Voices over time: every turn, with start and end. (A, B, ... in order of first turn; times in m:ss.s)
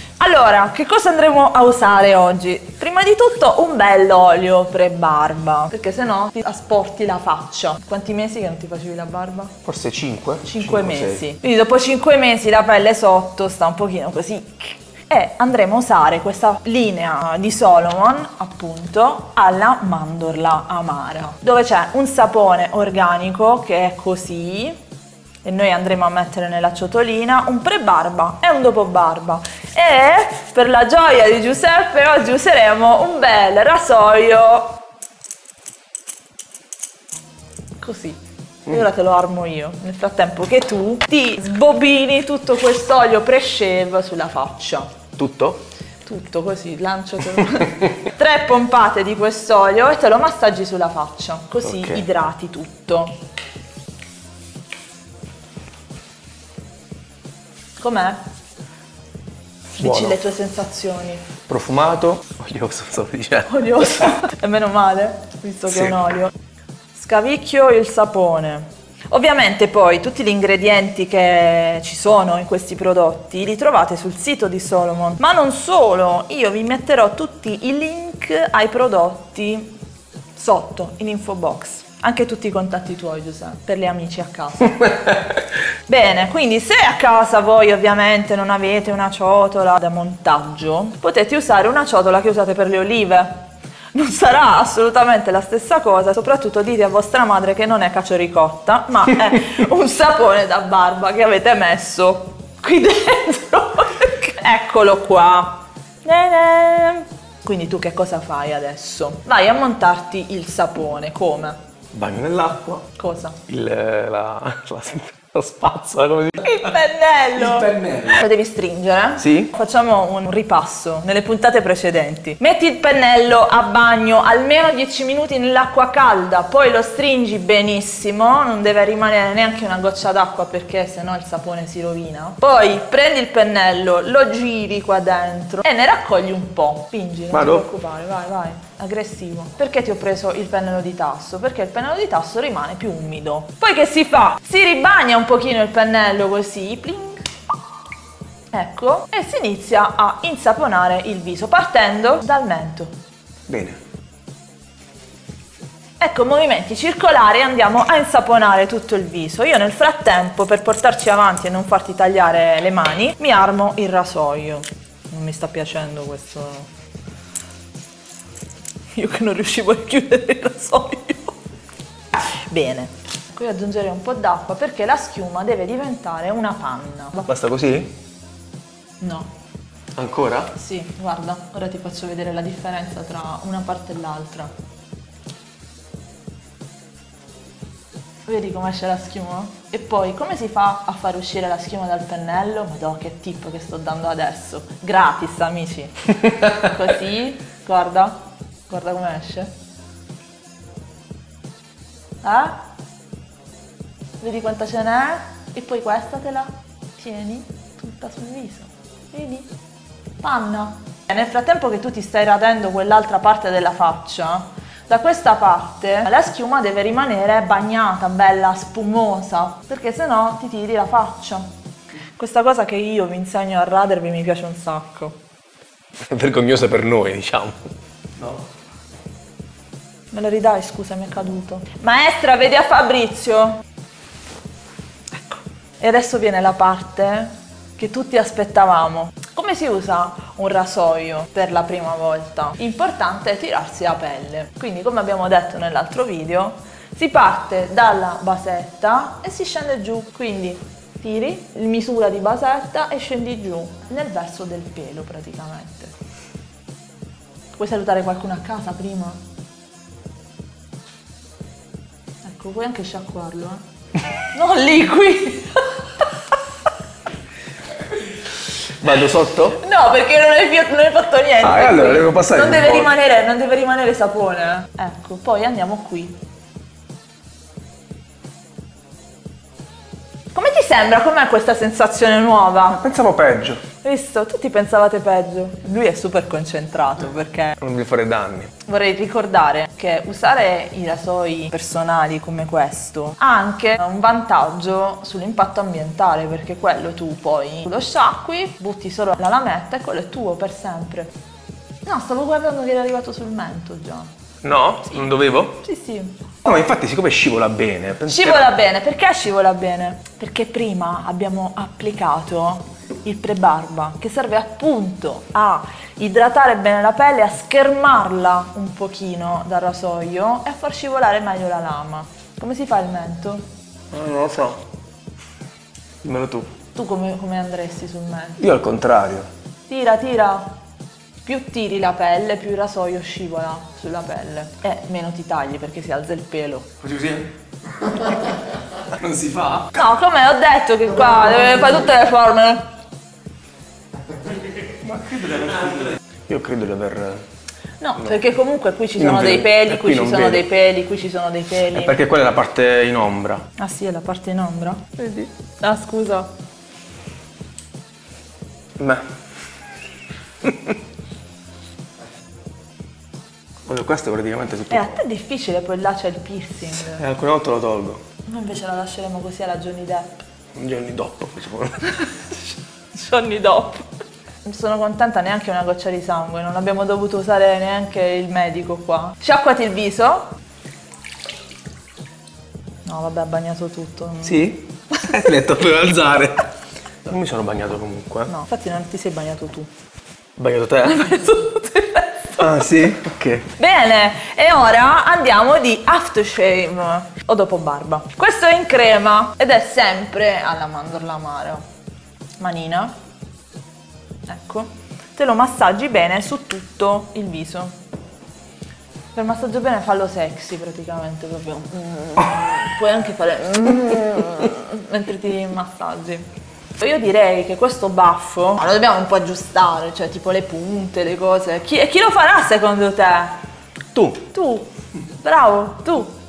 0:00.2-0:09.6 A
0:09.6-0:11.2 B
0:10.4-0:24.8 A
0:25.4-0:34.8 A
0:37.8-0:45.0 A
0:45.2-0:45.6 B
0:46.1-0:53.2 A
0:51.6-0:52.1 B
0:57.8-0:58.2 A
0:59.8-1:01.3 A
0:59.8-1:00.2 B
1:01.5-1:04.1 B
1:03.5-1:06.3 A
1:05.7-1:06.0 B
1:06.9-1:19.8 A
1:20.4-1:25.2 A
1:25.9-1:51.6 A
1:51.9-1:52.9 B
1:53.0-1:53.4 A
1:53.5-1:56.6 B
1:56.4-2:27.3 A
1:57.4-1:58.2 B
1:59.2-1:59.5 B
2:17.3-2:17.7 B
2:28.5-2:32.9 A
2:33.5-2:33.8 B
2:36.0-2:46.7 A
2:49.0-2:51.4 A
2:52.3-2:57.3 A
2:57.3-2:57.9 B
2:59.0-2:59.3 A
3:00.0-3:00.5 B
3:00.5-3:04.5 A
3:08.3-3:19.5 A
3:22.2-3:22.6 A
3:24.2-3:29.5 A
3:30.2-3:41.5 A
3:42.2-3:45.2 A
3:46.1-3:48.4 B
3:50.1-3:53.6 A
3:55.1-4:15.9 A
4:17.6-4:19.2 A
4:22.2-4:23.6 A
4:24.2-4:26.2 A
4:28.8-4:29.6 B
4:29.6-4:36.2 A
4:31.4-4:32.9 B
4:40.3-4:42.8 A
4:42.8-4:43.6 B
4:43.8-4:47.6 A
4:47.6-4:48.5 B
4:48.6-5:01.1 A
5:01.9-5:04.1 A
5:04.4-5:05.6 B
5:05.6-5:06.3 A
5:06.4-5:08.5 B
5:08.1-5:23.5 A
5:23.9-5:24.6 B
5:26.0-5:26.5 B
5:26.8-5:28.4 A
5:28.4-5:29.3 B
5:29.7-5:30.5 A
5:31.2-5:36.8 A
5:36.8-5:37.3 B
5:38.9-5:39.8 B
5:39.8-5:42.6 A
5:44.7-5:47.2 B
5:47.8-5:52.0 A
5:49.0-5:50.5 B
5:51.7-5:53.5 B
5:53.6-5:56.3 A
6:03.7-6:05.0 B
6:04.7-6:07.0 A
6:07.0-6:08.0 B
6:08.3-6:10.2 A
6:10.6-6:11.9 B
6:12.9-6:13.9 A
6:14.4-6:20.3 A
6:22.8-6:25.1 A
6:24.2-6:26.5 B
6:27.0-6:28.3 B
6:28.3-6:29.7 A
6:30.4-6:31.1 B
6:30.8-6:32.7 A
6:32.4-6:33.5 B
6:33.6-6:41.6 A
6:42.4-6:42.9 A
6:44.3-6:47.8 A
6:49.2-6:56.3 A
6:56.8-7:03.4 A
7:03.9-7:04.2 B
7:04.3-7:06.1 A